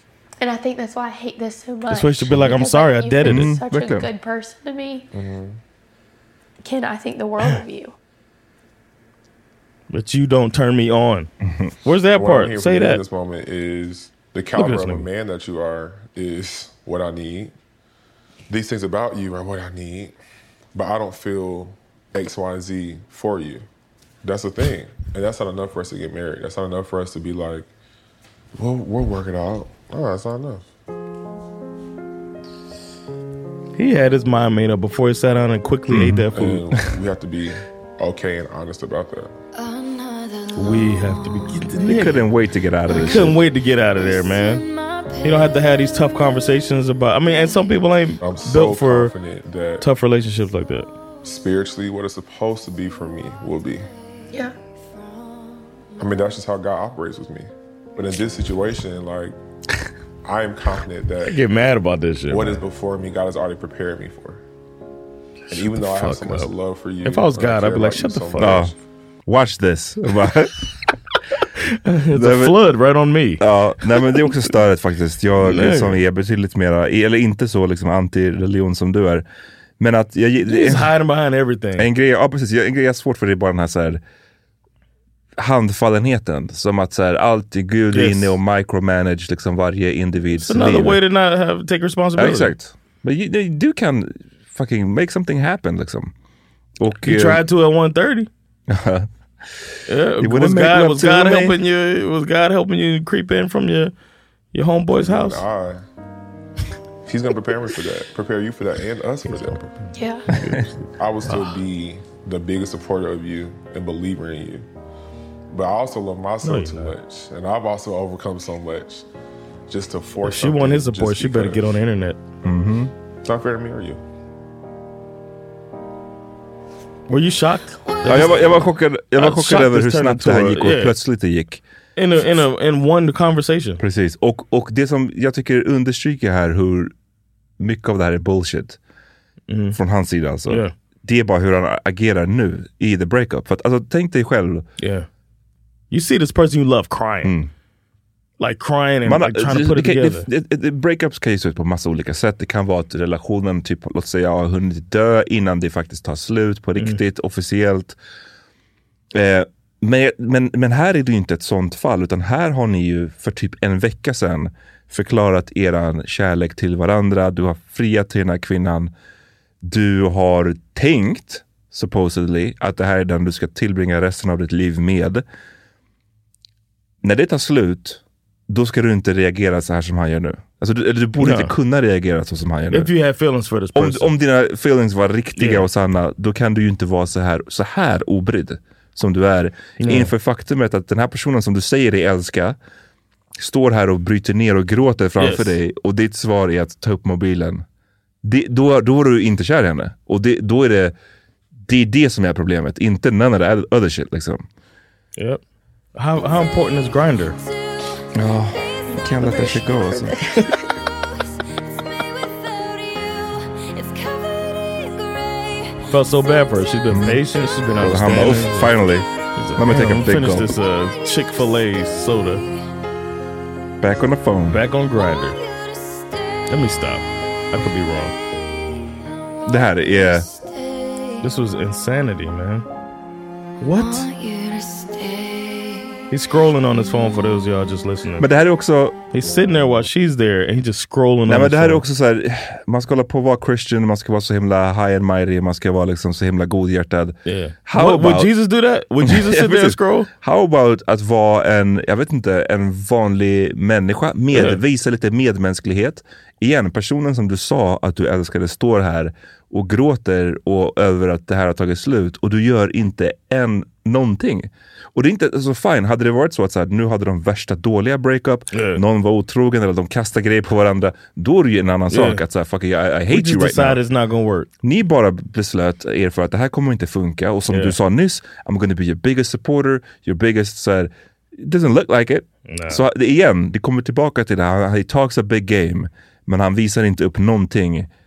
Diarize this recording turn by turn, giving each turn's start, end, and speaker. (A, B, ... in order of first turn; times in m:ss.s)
0:00.4-0:05.1 A
0:01.9-0:03.5 B
0:03.2-0:04.1 C
0:05.1-0:05.6 D
0:06.6-0:08.0 A
0:09.9-0:11.3 B
0:11.5-0:11.7 C
0:11.8-0:13.0 B
0:12.1-0:17.5 D
0:14.6-0:15.1 B
0:18.5-0:20.2 D
0:20.7-0:23.6 D
0:24.2-0:27.7 D
0:28.6-0:30.6 D
0:33.8-0:36.6 B
0:35.9-0:36.3 C
0:36.3-0:39.3 D
0:40.5-0:42.2 B
0:41.8-0:43.4 C
0:42.9-0:44.6 B
0:45.2-0:49.1 B
0:48.2-0:49.9 D
0:49.8-0:50.9 B
0:51.2-0:53.9 D
0:56.0-0:59.4 D
1:00.2-1:01.4 D
1:01.2-1:02.6 B
1:02.3-1:04.4 D
1:05.5-1:06.5 B
1:05.5-1:08.7 D
1:07.0-1:08.6 B
1:08.4-1:08.7 C
1:09.3-1:10.6 C
1:11.6-1:13.4 B
1:12.1-1:12.6 C
1:13.4-1:19.2 C
1:15.4-1:16.0 B
1:19.8-1:20.9 C
1:20.5-1:21.9 B
1:21.8-1:24.0 C
1:25.4-1:31.0 C
1:27.9-1:28.4 B
1:30.4-1:32.5 B
1:32.2-1:36.1 C
1:36.8-1:37.4 C
1:37.1-1:38.3 B
1:38.7-1:39.1 C
1:39.9-1:43.9 B
1:40.2-1:41.6 C
1:44.5-1:45.4 B
1:45.0-1:45.8 D
1:47.1-1:49.7 D
1:49.3-1:51.6 B
1:50.0-1:50.3 A
1:51.0-1:54.7 D
1:55.5-1:59.0 D
1:56.4-1:56.9 B
1:59.7-2:01.7 D
2:00.2-2:02.2 B
2:02.4-2:02.9 C
2:03.2-2:04.0 D
2:07.1-2:11.0 B
2:08.1-2:11.6 C
2:12.0-2:13.8 B
2:13.8-2:16.9 C
2:17.6-2:18.8 C
2:19.5-2:19.8 B
2:19.7-2:24.7 C
2:20.5-2:20.7 B
2:24.8-2:25.1 B
2:25.9-2:27.3 B
2:27.2-2:27.5 C
2:28.4-2:30.3 B
2:29.0-2:38.0 C
2:39.1-2:48.9 C
2:49.6-2:55.2 C
2:57.0-3:02.9 C
3:01.2-3:01.5 B
3:02.7-3:04.1 B
3:03.8-3:12.6 C
3:05.4-3:05.7 B
3:09.8-3:10.1 B
3:13.4-3:17.6 C
3:15.2-3:15.6 B
3:18.2-3:20.9 C
3:21.7-3:24.4 C
3:26.0-3:27.4 B
3:28.2-3:30.2 C
3:35.9-3:38.7 B
3:36.9-3:37.2 C
3:37.8-3:40.5 C
3:39.4-3:42.4 B
3:43.8-3:44.6 C
3:44.5-3:45.4 B
3:46.5-3:48.2 B
3:49.5-3:50.3 C
3:51.2-3:52.7 B
3:53.6-3:54.1 B
3:56.1-3:58.3 B
3:58.2-3:59.0 C
3:59.1-4:01.8 B
4:01.3-4:08.3 C
4:07.2-4:10.1 B
4:09.0-4:33.8 C
4:14.3-4:14.6 B
4:28.5-4:28.8 B
4:31.9-4:32.2 B
4:33.1-4:34.5 B
4:34.6-4:47.9 C
4:37.5-4:37.8 B
4:42.5-4:42.8 B